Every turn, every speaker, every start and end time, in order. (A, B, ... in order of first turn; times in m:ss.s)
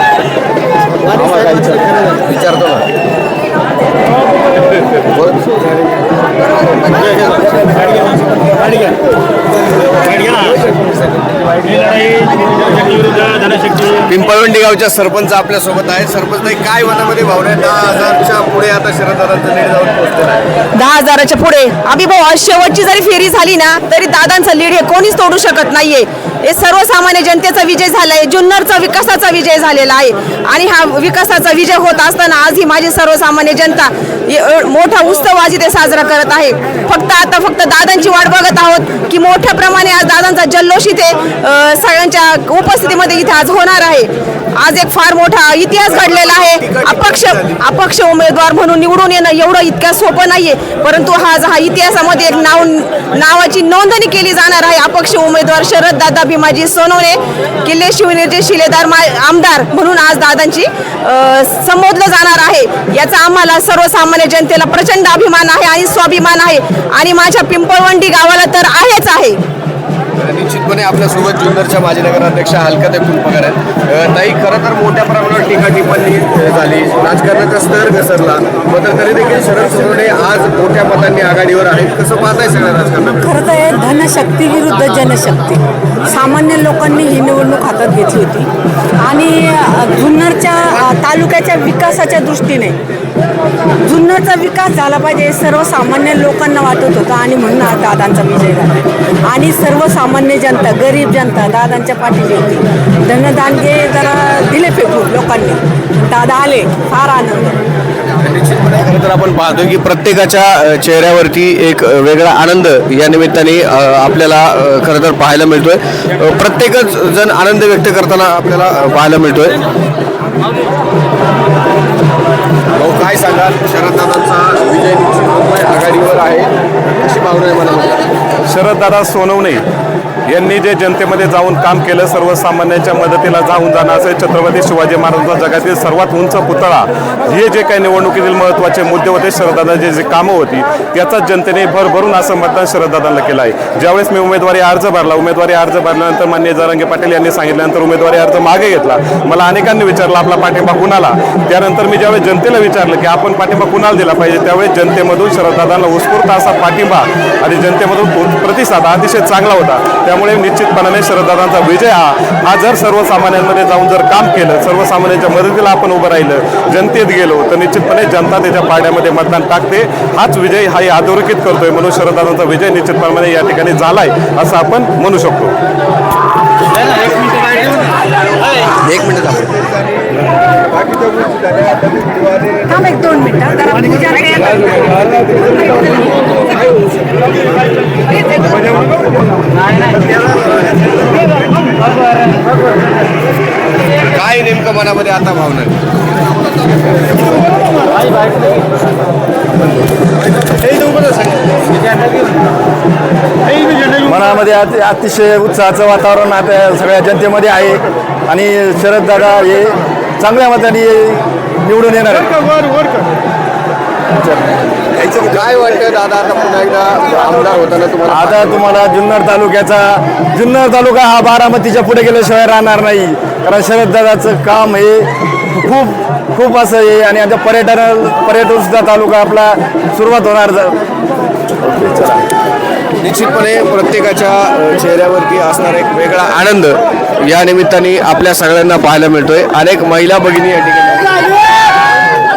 0:01.0-0:02.9 A
0:05.0-0:05.5 A
0:07.0-0:07.9 A
0:10.1-0:10.5 A
0:13.9-0:20.4 A
0:20.7-1:09.4 B
0:46.0-0:47.6 A
1:10.2-1:23.2 A
1:23.2-1:28.5 C
1:29.0-1:32.8 C
1:33.8-1:47.6 C
1:48.2-1:59.6 A
2:02.8-2:08.0 A
2:08.5-2:09.6 D
2:10.3-2:55.5 D
2:58.7-3:00.1 A
3:00.7-3:02.7 A
3:02.7-3:05.3 C
3:14.0-3:15.8 A
3:20.4-3:21.6 A
3:23.8-3:32.7 E
3:34.9-3:38.6 A
3:38.1-3:50.8 E
3:51.6-3:52.2 E
3:53.0-4:01.2 A